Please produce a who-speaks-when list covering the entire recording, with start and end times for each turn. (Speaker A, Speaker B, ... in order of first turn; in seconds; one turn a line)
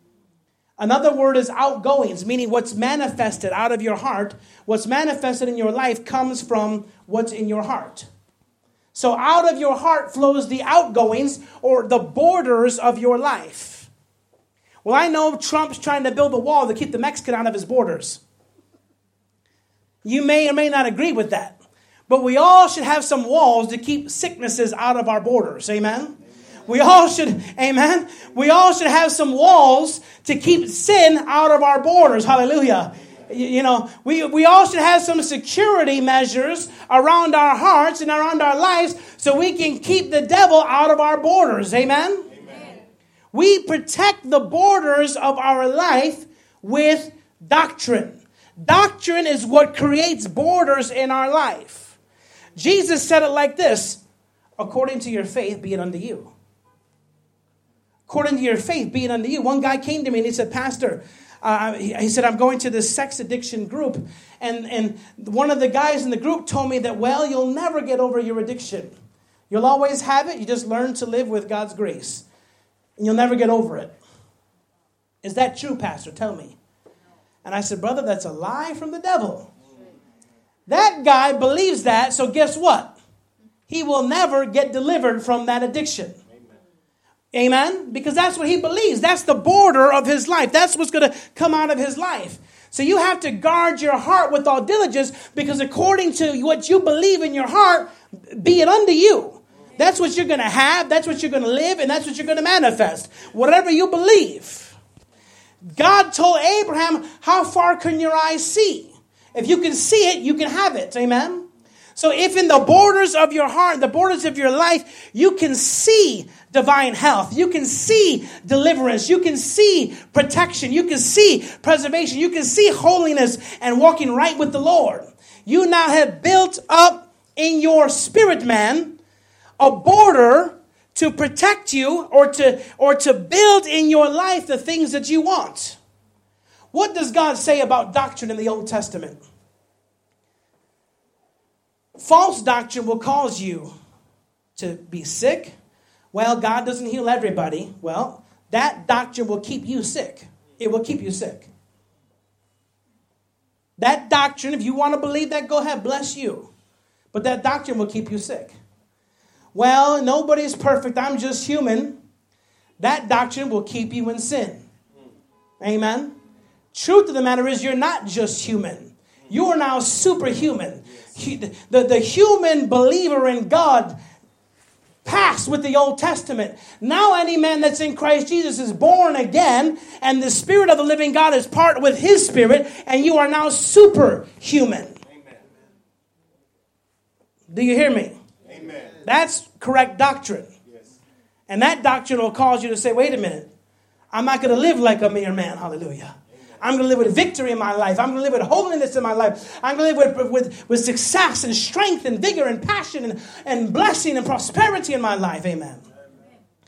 Speaker A: 0.8-8.1
Speaker A: 8.9-13.9
Speaker A: 14.8-18.2
Speaker A: 20.0-21.6
Speaker A: 22.1-42.3
Speaker A: 43.3-52.0
Speaker A: 52.6-54.0
Speaker A: 54.6-56.3
Speaker A: 58.1-68.9
Speaker A: 69.5-72.3
Speaker A: 73.0-74.0
Speaker A: 75.2-76.6
Speaker A: 77.5-79.5
Speaker A: 80.7-82.9
Speaker A: 83.7-86.2
Speaker A: 87.3-104.8
Speaker A: 105.6-129.0
Speaker A: 129.6-135.8
Speaker A: 136.7-139.2
Speaker A: 142.0-143.7
Speaker A: 144.6-145.6
Speaker A: 146.1-151.5
Speaker A: 153.8-156.5
Speaker A: 157.1-158.6
Speaker A: 159.5-162.0
Speaker A: 162.8-164.7
Speaker A: 165.6-166.1
Speaker A: 166.7-174.0
Speaker A: 175.1-185.0
Speaker A: 187.5-188.1
Speaker A: 188.8-190.5
Speaker A: 191.5-193.5
Speaker A: 194.1-205.8